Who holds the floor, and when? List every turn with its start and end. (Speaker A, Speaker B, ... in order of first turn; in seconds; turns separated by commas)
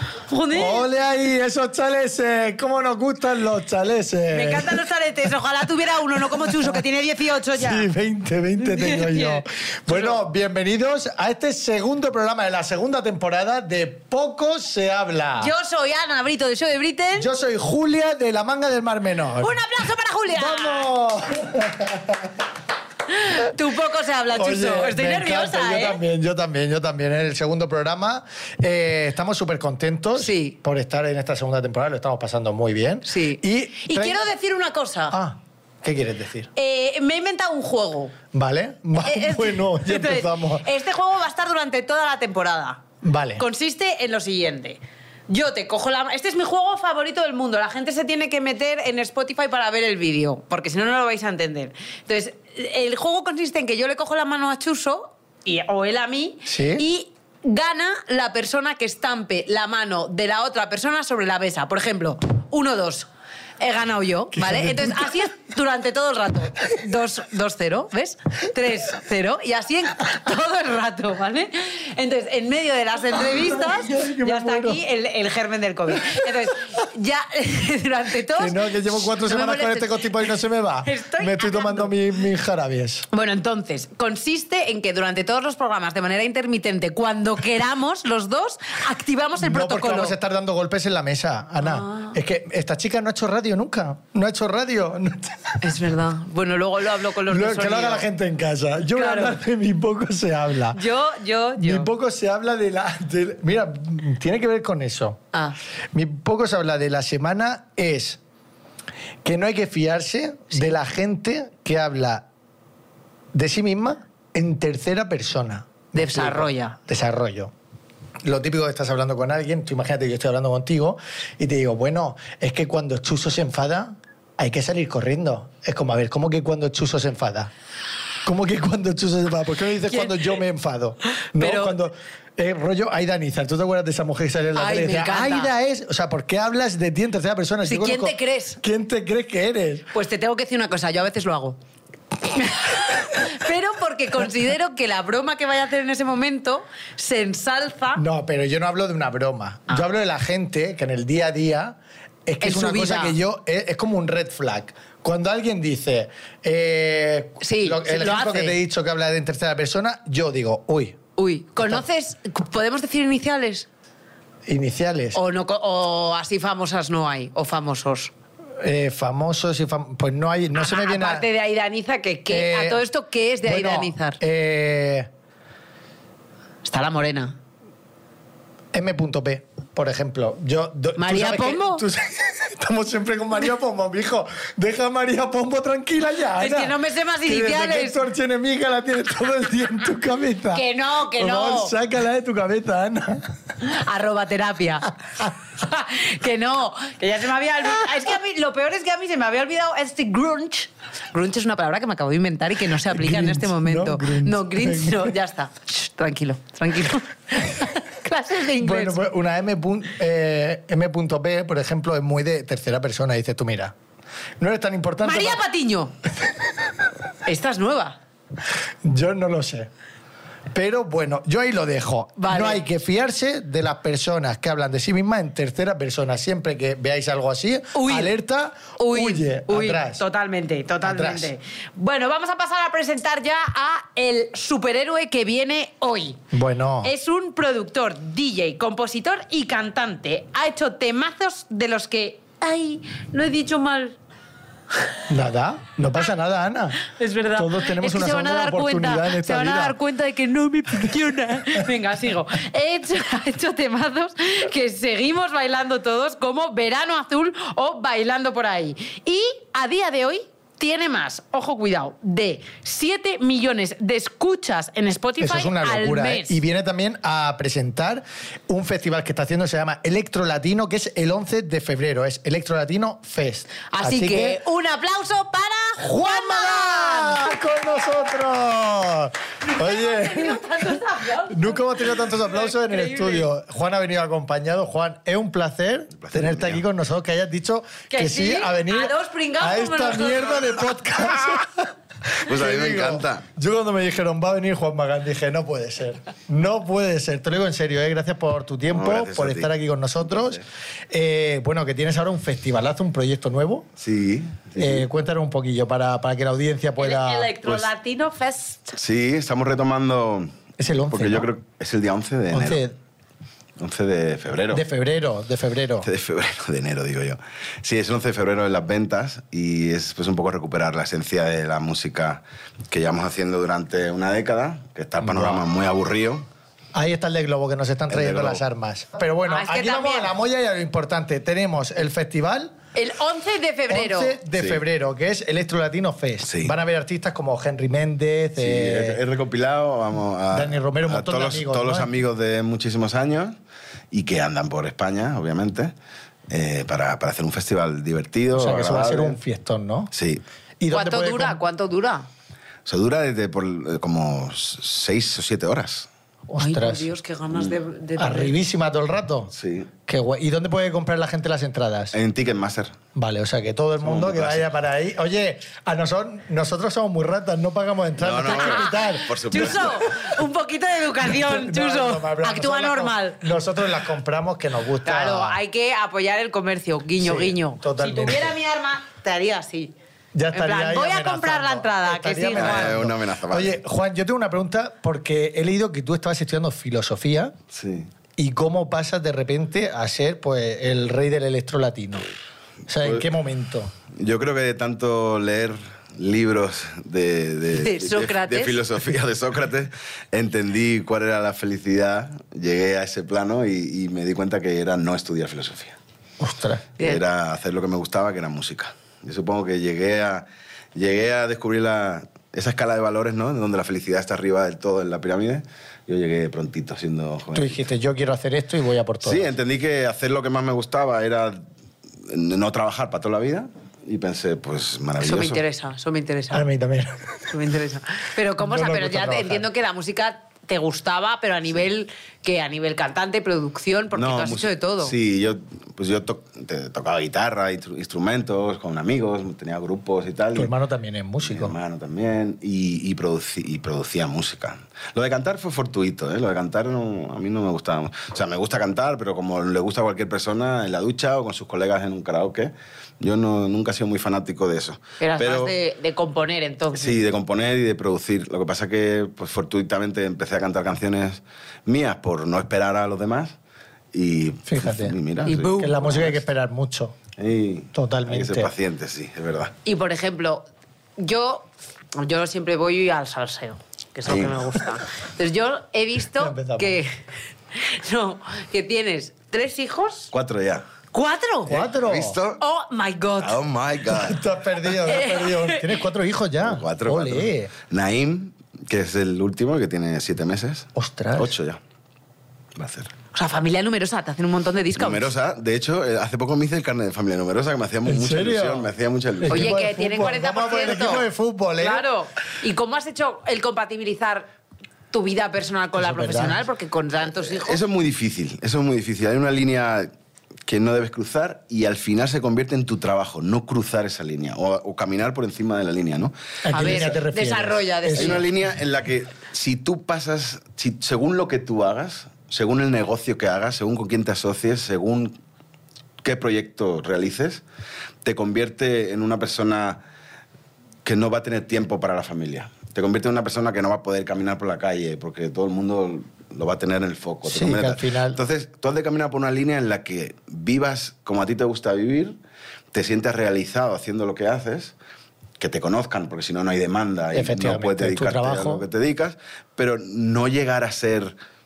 Speaker A: 0.3-0.8, Speaker B: 0.5-4.8, Speaker A: 4.3-7.9, Speaker B: 6.4-6.8, Speaker B: 7.5-15.5, Speaker A: 8.6-10.2, Speaker A: 15.4-17.3, Speaker B: 17.2-19.5, Speaker A: 19.4-20.9, Speaker B: 20.3-22.3, Speaker A: 23.1-26.0, Speaker B: 24.3-34.3, Speaker A: 30.1-30.6, Speaker A: 33.0-35.1, Speaker B: 35.1-36.5, Speaker A: 36.5-38.1, Speaker B: 38.3-40.6, Speaker A: 39.0-42.8, Speaker B: 43.0-43.4, Speaker A: 43.4-63.1, Speaker B: 56.4-56.8, Speaker A: 63.6-80.2, Speaker B: 64.3-65.1, Speaker B: 73.1-74.8, Speaker B: 76.0-76.3, Speaker B: 78.3-83.0, Speaker A: 80.8-81.9, Speaker A: 83.1-90.2, Speaker B: 89.4-95.7, Speaker A: 91.6-92.2, Speaker A: 95.6-98.1, Speaker B: 97.3-100.8, Speaker A: 98.9-99.4, Speaker A: 100.7-101.9, Speaker B: 101.6-105.2, Speaker B: 105.9-108.2, Speaker B: 109.2-112.2, Speaker B: 113.3-117.5, Speaker A: 115.9-116.8, Speaker B: 118.2-127.5, Speaker B: 128.2-139.9, Speaker A: 129.9-130.4, Speaker A: 131.2-131.8, Speaker A: 134.5-135.5, Speaker A: 137.7-138.6, Speaker A: 139.9-141.6, Speaker A: 142.3-148.0, Speaker B: 147.9-161.0, Speaker A: 152.4-153.2, Speaker A: 157.4-158.6, Speaker A: 161.2-163.7, Speaker B: 161.6-161.8, Speaker B: 164.5-165.2, Speaker A: 165.1-168.1, Speaker B: 168.6-171.3, Speaker A: 170.5-174.2, Speaker B: 172.3-172.8, Speaker B: 173.4-175.1, Speaker A: 176.6-177.3, Speaker B: 178.7-193.3, Speaker A: 181.0-181.8, Speaker A: 186.4-188.0, Speaker A: 190.5-191.7, Speaker A: 193.6-209.0, Speaker B: 202.8-205.2, Speaker B: 208.6-213.7, Speaker B: 214.4-215.4, Speaker A: 215.0-215.9, Speaker A: 217.2-218.0, Speaker B: 218.8-219.7, Speaker B: 220.5-230.0, Speaker A: 222.2-222.6, Speaker A: 227.7-228.1, Speaker A: 228.8-236.2, Speaker B: 230.8-231.3, Speaker B: 236.3-236.9, Speaker A: 236.8-244.0, Speaker B: 245.1-246.8, Speaker A: 246.9-266.4, Speaker B: 247.3-249.8, Speaker B: 265.2-274.4, Speaker A: 273.7-277.8, Speaker B: 275.8-280.4, Speaker A: 279.4-283.3, Speaker B: 281.3-303.6, Speaker C: 286.0-286.6, Speaker A: 287.9-290.6, Speaker C: 292.2-293.2, Speaker C: 298.7-299.5, Speaker C: 300.0-300.4, Speaker C: 303.8-304.8, Speaker B: 304.6-307.3, Speaker A: 306.8-308.8, Speaker C: 307.4-307.7, Speaker C: 308.8-310.3, Speaker B: 310.6-311.3, Speaker C: 310.9-312.6, Speaker B: 312.3-312.8, Speaker C: 313.6-314.6, Speaker B: 314.5-315.9, Speaker C: 315.8-326.2, Speaker B: 325.0-325.4, Speaker B: 326.7-332.6, Speaker C: 327.9-328.4, Speaker A: 329.3-330.1, Speaker A: 332.7-334.2, Speaker B: 333.7-339.0, Speaker C: 334.3-334.6, Speaker C: 336.2-336.5, Speaker C: 338.4-343.4, Speaker B: 340.3-341.9, Speaker C: 343.9-345.7, Speaker C: 346.3-349.2, Speaker B: 348.3-349.9, Speaker C: 349.9-350.2, Speaker B: 350.6-351.4, Speaker A: 350.7-352.1, Speaker C: 352.6-355.9, Speaker B: 356.3-356.9, Speaker A: 356.4-358.3, Speaker B: 358.0-359.3, Speaker C: 359.3-359.7, Speaker B: 359.9-361.9, Speaker C: 361.9-362.8, Speaker B: 362.9-369.6, Speaker C: 363.8-364.5, Speaker C: 368.0-369.9, Speaker A: 368.2-373.2, Speaker B: 371.0-375.4, Speaker A: 374.9-379.7, Speaker B: 377.0-378.4, Speaker B: 380.1-387.3, Speaker A: 380.3-382.8, Speaker C: 382.3-383.6, Speaker C: 387.5-387.9, Speaker B: 388.2-392.1, Speaker B: 392.7-393.7, Speaker C: 392.8-393.1, Speaker C: 393.9-405.8, Speaker A: 397.5-398.6, Speaker B: 406.2-406.7, Speaker C: 406.8-417.6, Speaker B: 417.3-419.3, Speaker C: 419.0-421.4, Speaker C: 422.1-425.4, Speaker A: 425.0-426.4, Speaker B: 426.3-427.3, Speaker A: 427.3-434.9, Speaker B: 428.4-429.5, Speaker C: 433.9-440.5, Speaker B: 440.3-441.5, Speaker C: 441.2-455.5, Speaker A: 455.0-457.0, Speaker C: 456.7-463.3, Speaker C: 463.9-466.2, Speaker B: 464.4-464.9, Speaker A: 465.2-465.8, Speaker B: 465.5-466.9, Speaker C: 467.2-469.5, Speaker B: 467.7-468.5, Speaker A: 469.6-470.4, Speaker A: 471.0-476.9, Speaker C: 474.1-474.6, Speaker B: 476.2-476.8, Speaker A: 477.5-480.1, Speaker C: 480.1-480.6, Speaker A: 480.9-481.6, Speaker B: 481.5-482.2, Speaker C: 481.5-482.4, Speaker A: 482.4-483.4, Speaker C: 483.2-484.2, Speaker B: 483.9-487.5, Speaker A: 484.9-485.7, Speaker C: 486.4-491.6, Speaker B: 490.7-491.3, Speaker C: 492.6-492.9, Speaker A: 493.1-495.1, Speaker C: 494.8-499.6, Speaker B: 497.9-498.7, Speaker B: 499.2-501.9, Speaker A: 499.3-501.1, Speaker A: 501.6-504.3, Speaker A: 504.9-507.6, Speaker B: 505.8-506.4, Speaker C: 507.2-509.9, Speaker C: 510.5-516.9, Speaker B: 516.4-518.2, Speaker A: 516.5-518.2, Speaker C: 517.9-525.1, Speaker C: 526.0-527.4, Speaker C: 528.0-529.8, Speaker C: 530.8-542.2, Speaker B: 537.2-538.2, Speaker C: 542.7-544.7, Speaker C: 545.4-551.1, Speaker B: 547.1-548.6